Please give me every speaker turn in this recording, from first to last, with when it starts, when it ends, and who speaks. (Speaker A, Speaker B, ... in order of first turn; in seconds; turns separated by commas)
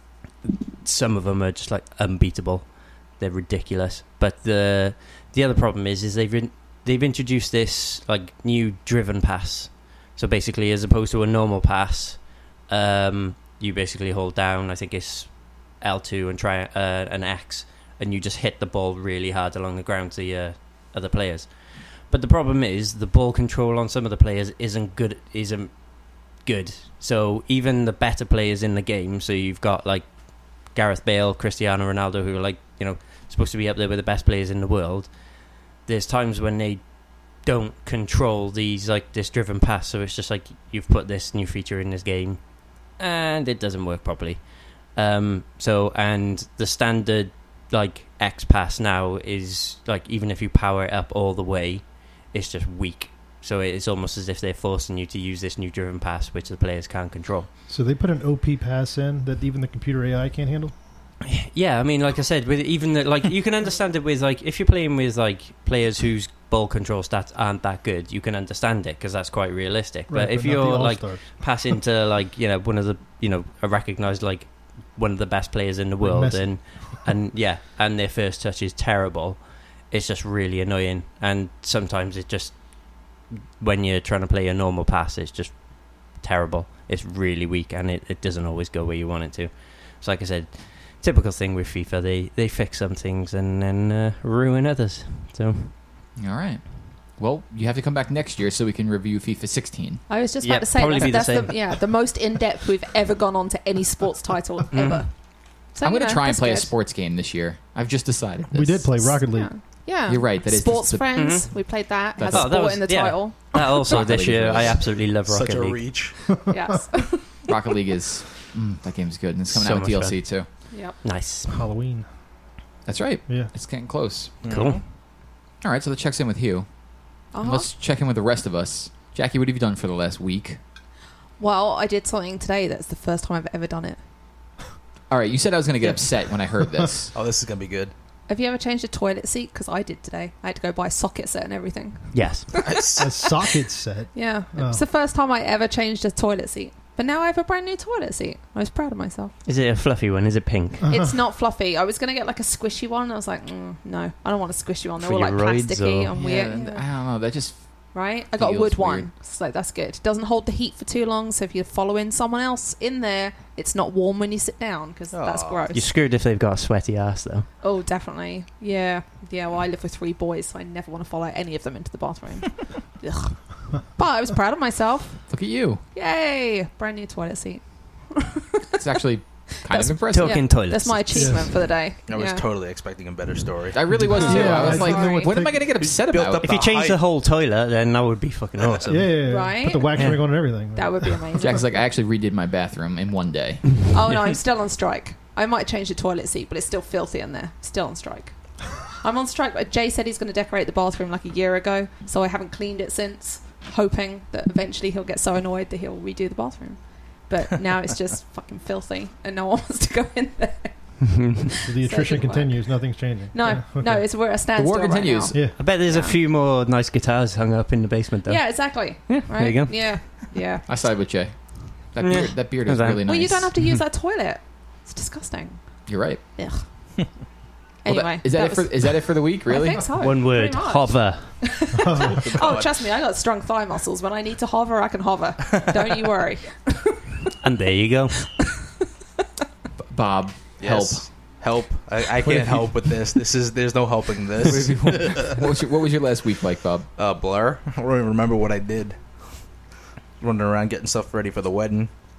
Speaker A: 0.4-57.5, Speaker B: 57.7-60.8, Speaker A: 61.2-95.7, Speaker B: 70.1-71.8, Speaker B: 76.0-77.0, Speaker C: 96.2-100.0, Speaker D: 100.1-106.7, Speaker A: 100.4-101.7, Speaker A: 104.7-105.1, Speaker C: 105.8-109.0, Speaker B: 108.5-109.5, Speaker D: 109.0-113.5, Speaker C: 110.1-111.6, Speaker A: 111.1-111.5, Speaker A: 112.1-116.0, Speaker C: 112.2-112.8, Speaker C: 113.5-114.8, Speaker E: 115.2-116.4, Speaker D: 116.5-117.4, Speaker C: 117.5-120.5, Speaker A: 119.5-120.3, Speaker D: 120.7-121.0, Speaker A: 121.0-121.6, Speaker B: 121.5-122.1, Speaker C: 122.9-124.3, Speaker E: 124.4-124.8, Speaker A: 124.5-124.8, Speaker C: 125.6-126.7, Speaker C: 127.3-130.6, Speaker D: 127.3-127.7, Speaker D: 131.4-134.0, Speaker C: 135.1-137.1, Speaker E: 137.1-137.9, Speaker D: 138.3-143.4, Speaker A: 142.1-142.6, Speaker E: 142.6-143.1, Speaker B: 143.0-144.8, Speaker D: 144.1-149.3, Speaker A: 149.4-150.9, Speaker B: 150.8-151.2, Speaker D: 150.9-156.9, Speaker A: 155.0-156.1, Speaker C: 156.1-157.6, Speaker D: 157.9-165.9, Speaker C: 158.3-159.1, Speaker E: 165.1-165.7, Speaker A: 165.7-167.5, Speaker D: 167.6-175.3, Speaker C: 175.3-175.8, Speaker D: 175.9-178.8, Speaker C: 178.8-180.5, Speaker D: 179.7-182.5, Speaker A: 180.1-181.5, Speaker B: 181.1-181.7, Speaker E: 182.1-184.4, Speaker C: 183.7-186.5, Speaker B: 183.9-185.7, Speaker D: 184.1-185.4, Speaker E: 186.0-187.0, Speaker A: 186.4-190.5, Speaker B: 188.9-191.2, Speaker D: 189.3-191.8, Speaker C: 191.3-193.7, Speaker D: 193.9-216.2, Speaker B: 211.6-214.0, Speaker C: 214.5-215.4, Speaker B: 215.3-215.6, Speaker A: 215.6-220.1, Speaker D: 218.3-220.6, Speaker C: 220.7-223.5, Speaker A: 222.0-223.0, Speaker D: 223.0-226.6, Speaker C: 225.9-226.2, Speaker D: 227.8-237.1, Speaker C: 227.8-229.9, Speaker A: 230.0-231.4, Speaker B: 231.8-232.3, Speaker E: 232.2-232.8, Speaker A: 237.4-238.3, Speaker C: 239.9-241.1, Speaker E: 240.6-245.4, Speaker B: 242.2-242.8, Speaker C: 244.4-246.9, Speaker E: 246.9-249.6, Speaker E: 250.2-251.9